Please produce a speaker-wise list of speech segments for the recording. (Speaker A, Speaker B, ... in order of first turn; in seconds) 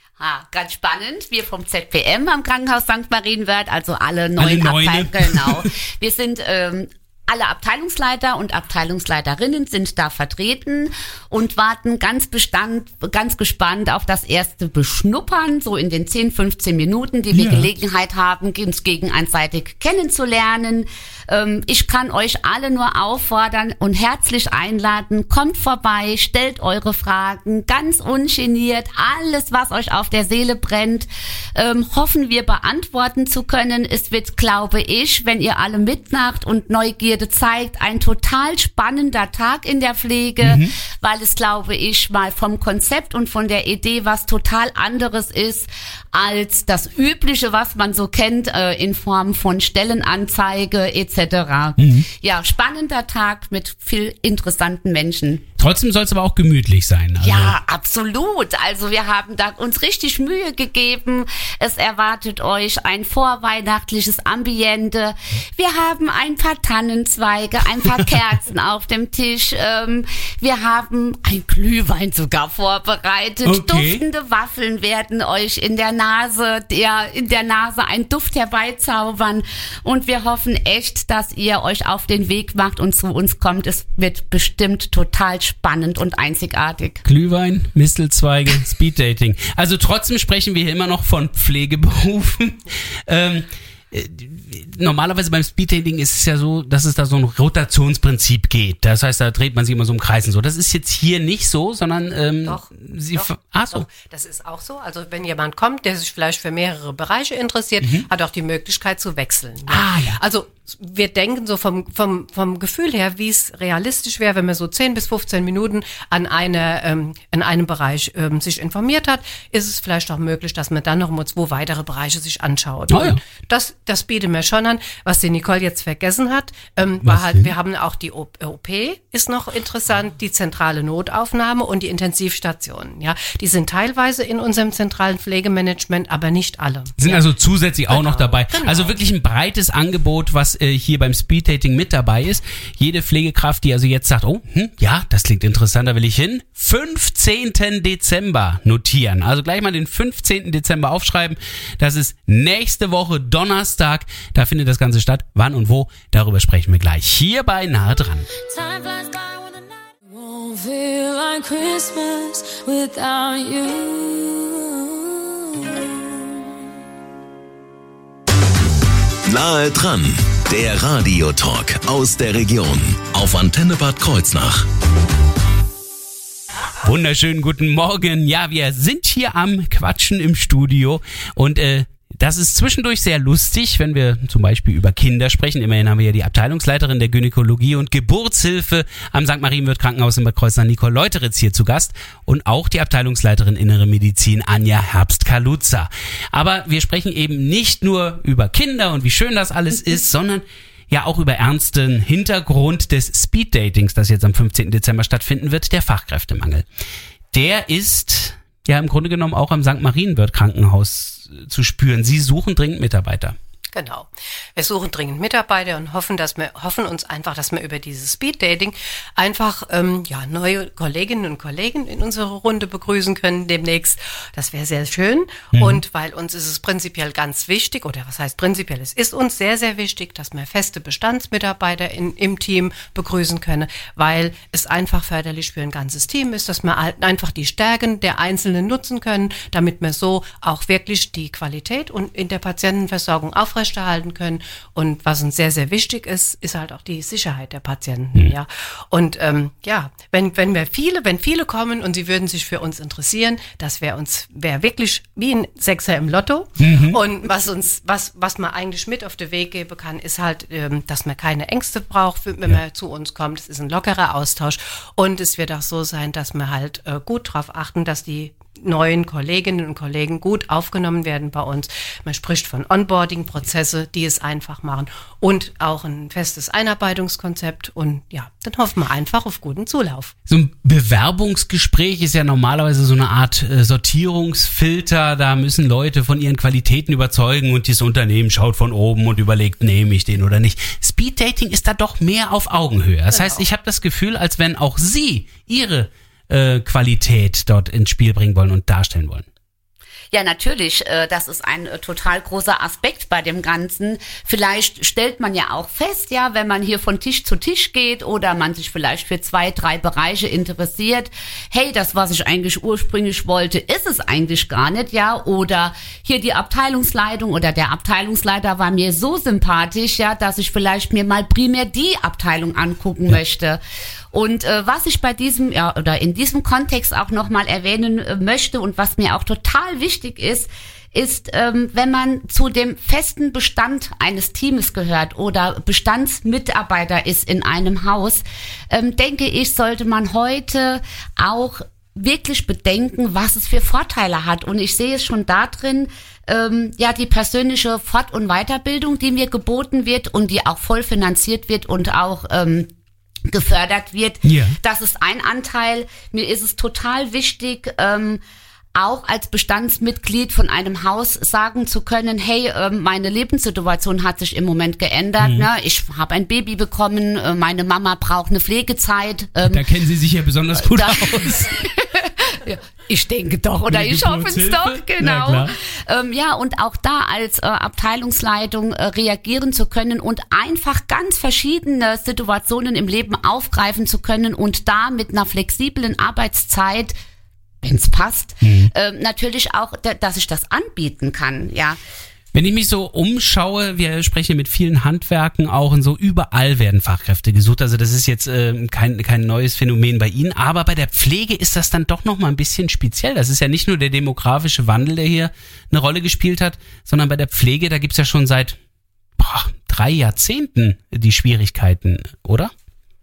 Speaker A: 0.2-55.4, 57.2-87.0, 300.1-323.6, 324.1-352.7, 353.3-358.2, 358.7-369.6, 370.6-386.9, 387.6-391.8
Speaker B: 4.4-5.7, 17.3-17.7, 40.4-40.7, 51.8-52.1, 55.6-57.5, 73.4-74.0, 87.0-103.8, 109.7-110.2, 122.9-123.2, 127.0-127.5, 137.0-158.3, 176.8-206.6, 207.3-213.3, 225.5-225.8, 256.6-257.0, 280.2-299.2, 354.2-354.6, 365.2-365.5, 369.4-371.4, 373.7-375.5, 388.4-388.7, 392.3-408.6, 409.2-412.5
Speaker C: 102.4-137.2, 137.9-138.9, 213.7-280.1, 293.1-293.4
Speaker D: 158.5-159.6, 160.1-165.9
Speaker E: 169.3-174.7